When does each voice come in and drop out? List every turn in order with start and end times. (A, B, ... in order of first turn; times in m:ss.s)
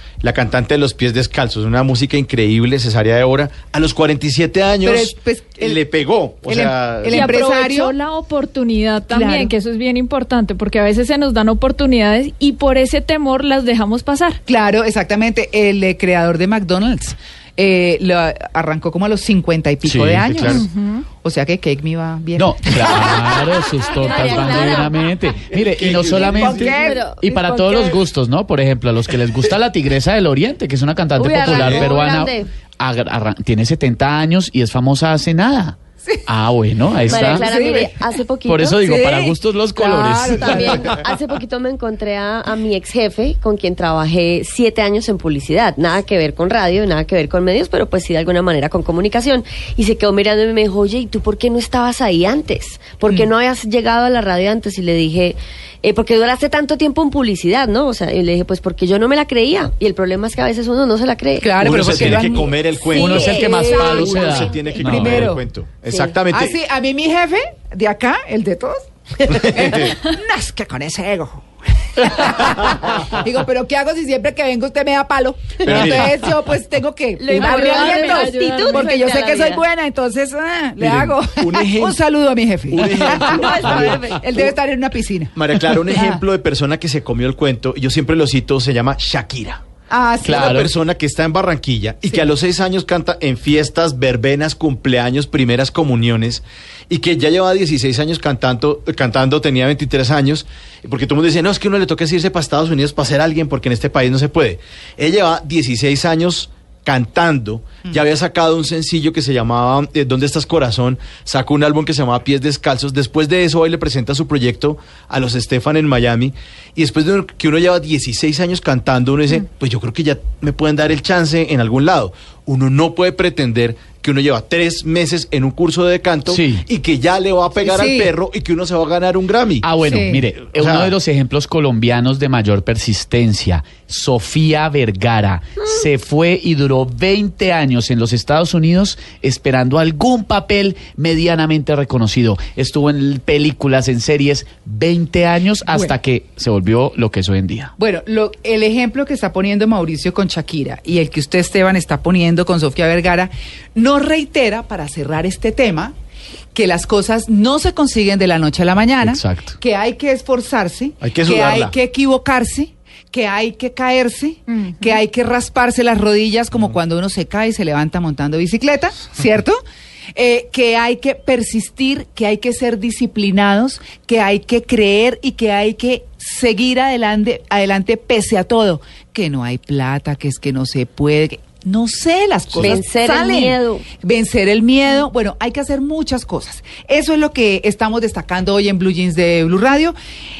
0:00.2-0:07.3 A
0:04.8-0:05.8 B
0:06.4-0:07.9 B
0:07.1-0:14.4 C
0:09.1-0:09.5 B
0:14.5-0:20.6 B
0:19.8-0:20.5 D
0:20.3-0:20.6 A
0:20.5-0:21.0 C
0:21.2-0:23.4 B
0:22.4-0:37.5 D
0:23.9-0:25.0 E
0:24.0-0:24.4 B
0:25.5-0:26.7 A
0:26.1-0:27.1 B
0:26.5-0:28.0 E
0:31.2-0:32.5 E
0:31.4-0:31.9 A
0:37.1-0:38.8 E
0:37.2-0:38.0 B
0:38.5-0:40.8 D
0:38.8-0:41.0 B
0:40.2-1:01.6 E
1:01.4-1:05.4 B
1:01.6-1:06.6 A
1:02.9-1:04.8 E
1:02.9-1:05.3 D
1:06.3-1:26.2 B
1:09.2-1:10.0 A
1:15.6-1:16.2 A
1:17.2-1:19.6 E
1:17.3-1:19.0 C
1:20.8-1:21.1 D
1:21.3-1:22.0 A
1:22.7-1:24.0 A
1:22.9-1:24.4 E
1:23.7-1:24.0 D
1:25.4-1:29.6 A
1:29.9-1:30.6 B
1:30.2-1:30.7 D
1:30.3-2:09.8 A
2:06.3-2:06.6 D
2:07.6-2:08.1 B
2:09.6-2:27.7 D
2:09.8-2:10.2 B
2:10.5-2:10.9 A
2:25.7-2:26.0 B
2:27.8-2:35.9 B
2:36.5-2:49.6 B
2:39.0-2:39.5 D
2:41.0-2:41.7 A
2:50.1-3:10.0 B
3:02.5-3:02.8 A
3:02.6-3:03.8 E